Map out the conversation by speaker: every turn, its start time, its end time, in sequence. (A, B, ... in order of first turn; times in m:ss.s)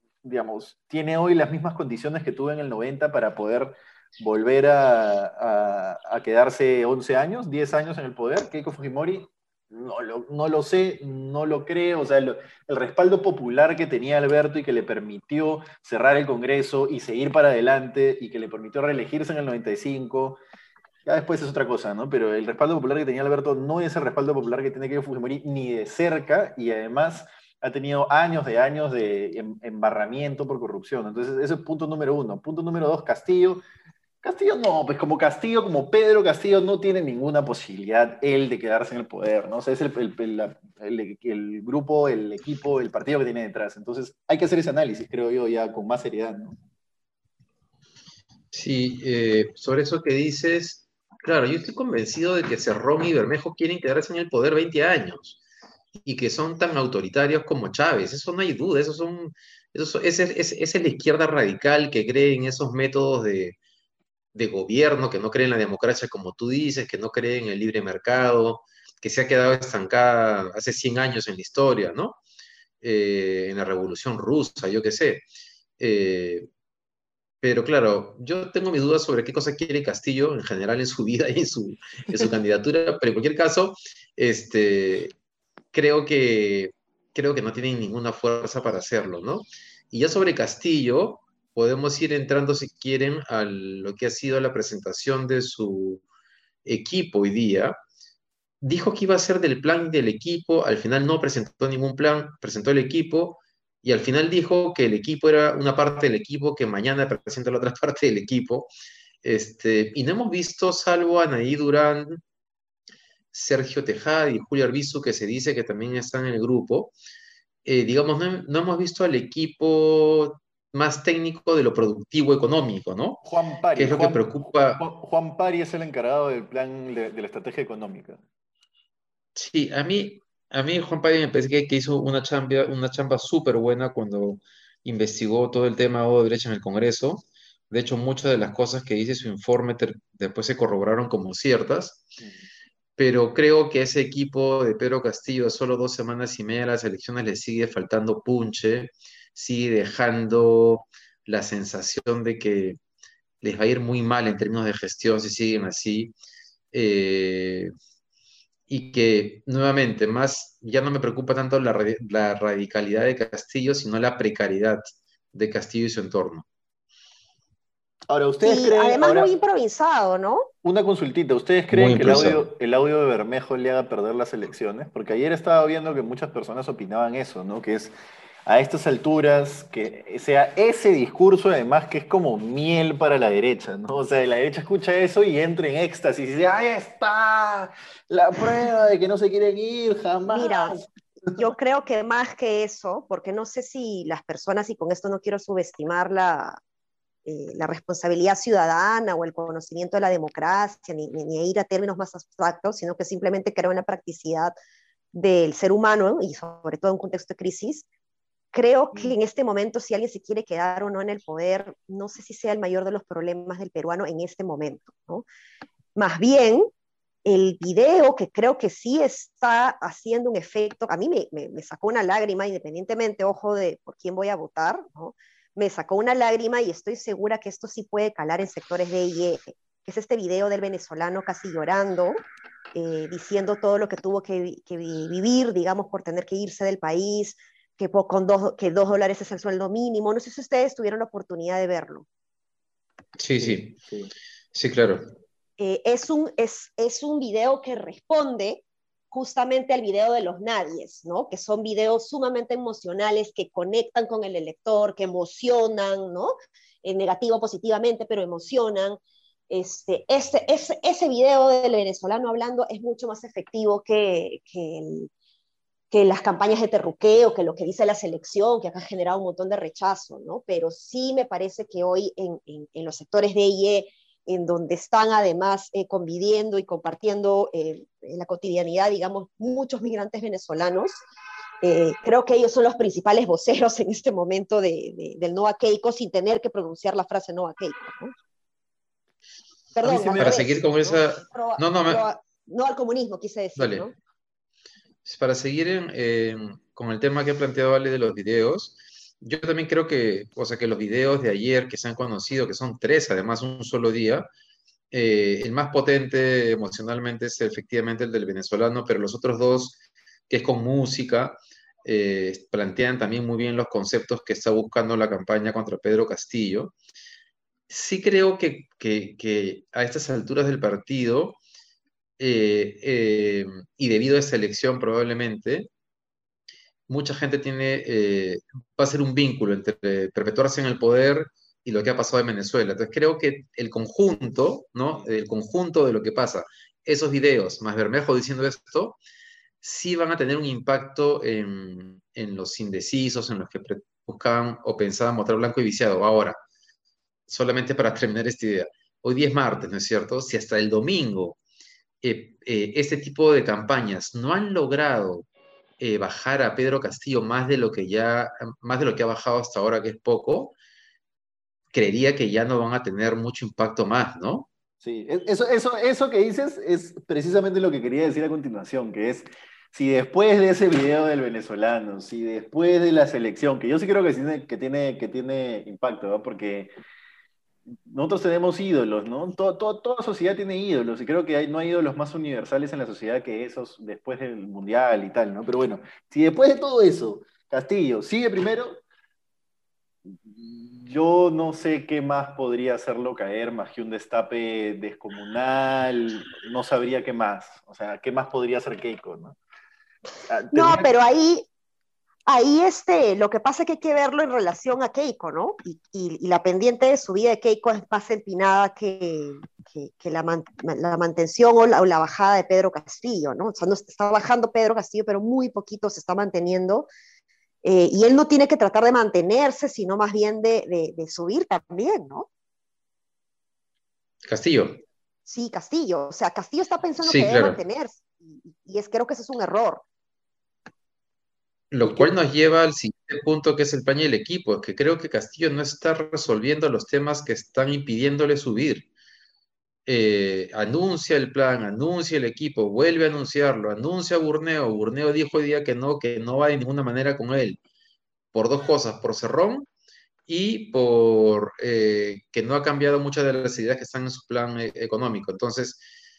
0:00.2-0:20.4 A
0:21.0-0:33.6 A
0:34.2-0:46.6 A
0:48.5-0:55.4 B
0:56.0-1:03.6 B
1:04.3-1:12.2 B
1:12.8-1:15.2 B
1:15.8-1:16.5 B
1:17.4-1:25.1 B
1:25.7-1:36.0 B
1:36.6-1:37.7 B
1:38.6-1:48.7 B
1:49.2-1:52.2 B
1:53.3-1:56.9 B
1:57.6-2:03.2 B
2:03.2-2:08.2 A
2:03.8-2:04.8 B
2:09.4-2:22.1 B
2:22.2-2:22.5 A
2:23.0-2:32.8 B
2:33.4-2:36.1 B
2:36.7-2:37.7 B
2:38.7-2:44.8 B
2:45.3-2:46.4 B
2:48.1-2:49.3 A
2:48.4-2:50.5 C
2:50.6-2:57.9 A
2:51.7-2:52.5 B
2:58.4-3:11.4 A
3:10.3-3:10.8 C
3:11.4-3:16.6 C
3:17.2-3:24.6 C
3:25.1-3:27.9 C
3:28.5-3:35.2 C
3:35.9-3:36.7 C
3:37.2-3:52.2 C
3:52.7-4:02.0 C
4:03.2-4:03.8 B
4:03.4-4:04.1 A
4:04.5-4:05.0 B
4:05.6-4:19.0 C
4:19.5-4:25.1 C
4:25.9-4:41.0 C
4:41.6-4:48.1 C
4:49.7-4:53.9 C
4:49.8-4:50.5 A
4:50.2-4:52.0 B
4:53.6-4:53.9 B
4:55.0-5:04.3 B
5:04.9-5:16.7 B
5:17.7-5:21.4 B
5:22.2-5:25.7 B
5:26.9-5:39.0 B
5:39.6-5:46.4 B
5:47.3-5:51.4 B
5:52.0-5:55.2 B
5:55.8-6:00.6 B
6:01.7-6:04.5 B
6:04.8-6:16.7 A
6:17.8-6:28.8 A
6:30.1-6:39.4 A
6:40.3-6:40.9 A
6:40.5-6:41.5 C
6:42.2-6:56.9 C
6:57.6-7:02.3 C
7:04.2-7:04.8 B
7:05.2-7:09.8 C
7:07.0-7:07.6 B
7:11.7-7:18.9 B
7:11.8-7:12.1 C
7:19.8-7:27.6 B
7:28.3-7:29.7 B
7:30.3-7:35.8 B